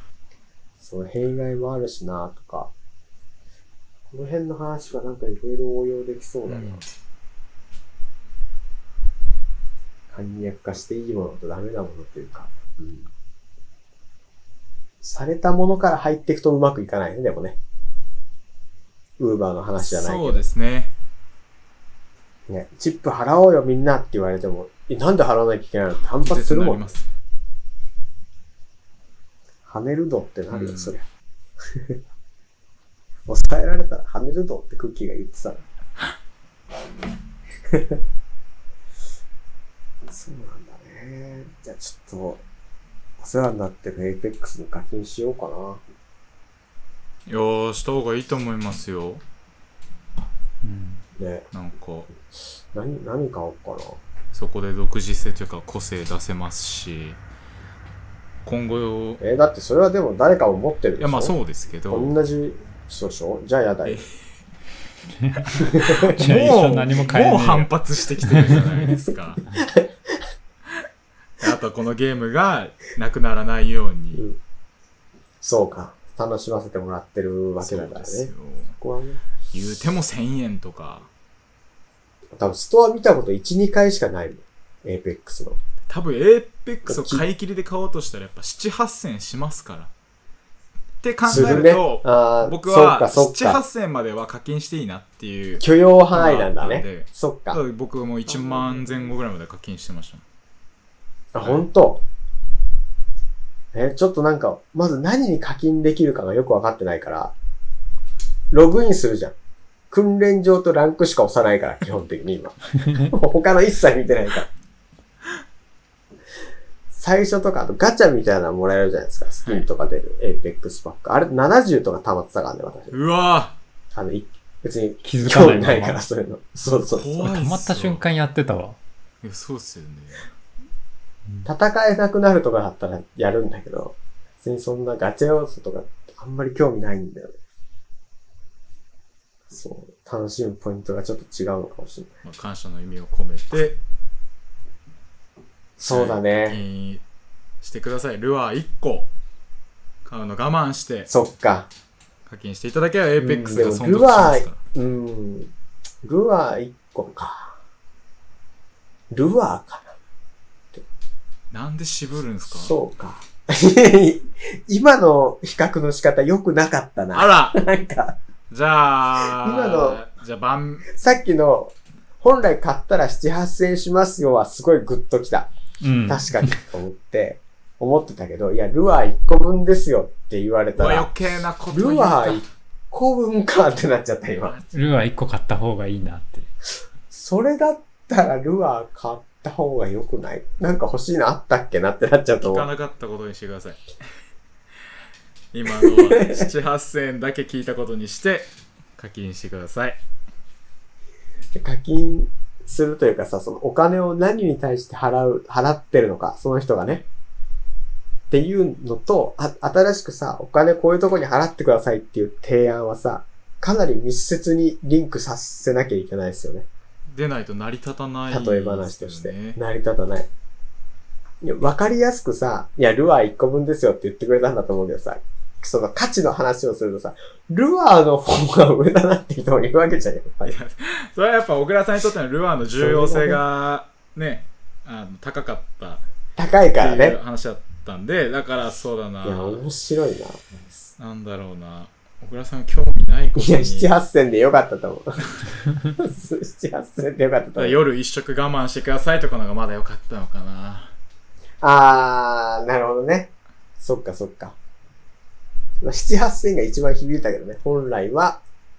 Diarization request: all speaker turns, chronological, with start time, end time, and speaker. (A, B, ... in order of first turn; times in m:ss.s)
0:00.8-0:02.7 A
0:04.1-0:06.8 A
0:06.5-0:06.8 B
0:10.1-0:13.1 A
0:15.0-0:17.6 A
0:19.2-0:20.4 A
0:19.8-0:20.9 B
0:22.5-0:26.9 A
0:26.2-0:27.1 B
0:29.7-0:31.0 A
0:30.5-0:30.9 B
0:31.7-0:32.0 A
0:33.3-0:35.6 A
0:37.7-0:38.0 A
0:40.1-0:42.4 A
0:43.2-0:45.8 A
0:47.3-0:49.2 B
0:50.6-0:51.1 C
0:51.2-0:51.5 A
0:51.5-0:52.1 B
0:52.7-0:54.0 A
0:54.3-0:57.2 B
0:58.4-0:59.2 B
0:59.2-1:01.4 A
1:01.0-1:02.1 B
1:01.9-1:04.0 A
1:03.8-1:04.1 B
1:05.2-1:08.9 C
1:05.6-1:09.4 B
1:05.6-1:06.1 A
1:09.5-1:10.2 A
1:11.4-1:14.2 B
1:14.1-1:14.4 A
1:15.4-1:19.2 A
1:17.6-1:18.8 B
1:19.5-1:21.1 B
1:22.4-1:25.6 A
1:25.9-1:29.9 B
1:26.9-1:27.2 A
1:31.0-1:40.2 B
1:31.3-1:33.6 A
1:35.6-1:37.6 A
1:38.3-1:38.9 A
1:41.3-1:42.0 A
1:43.7-1:47.3 A
1:48.5-1:49.4 A
1:49.9-1:54.5 A
1:56.9-2:03.0 A
2:02.9-2:03.6 B
2:03.9-2:07.3 A
2:05.0-2:06.0 C
2:06.9-2:08.0 B
2:07.2-2:08.8 C
2:09.2-2:10.3 B
2:11.4-2:17.4 A
2:19.5-2:22.1 A
2:22.2-2:23.8 B
2:25.8-2:26.6 A
2:25.9-2:27.0 B
2:27.6-2:29.1 B
2:30.0-2:31.1 B
2:31.1-2:31.7 A
2:32.3-2:34.6 B
2:33.2-2:35.5 A
2:36.0-2:37.6 A
2:39.1-2:40.0 A
2:41.5-2:42.7 B
2:42.5-2:48.2 A
2:47.1-2:47.6 B
2:48.5-2:50.9 B
2:49.2-2:50.0 A
2:50.9-2:55.5 A
2:55.8-2:56.6 C
2:56.1-3:01.1 A
3:00.8-3:02.5 B
3:01.7-3:04.6 A
3:04.4-3:04.7 B
3:04.7-3:06.5 C
3:07.1-3:12.7 A
3:12.4-3:13.9 B
3:15.5-3:20.0 B
3:15.8-3:16.5 A
3:21.6-3:27.0 A
3:28.3-3:36.7 A
3:37.1-3:39.6 B
3:38.3-3:40.3 A
3:41.4-3:50.5 A
3:50.4-3:56.0 B
3:52.8-3:53.4 A
3:56.4-3:57.2 A
3:56.8-3:59.6 B
3:59.2-4:00.6 A
4:01.0-4:03.9 B
4:03.4-4:05.2 A
4:06.0-4:07.8 A
4:07.6-4:11.0 B
4:11.6-4:14.6 A
4:15.8-4:18.4 A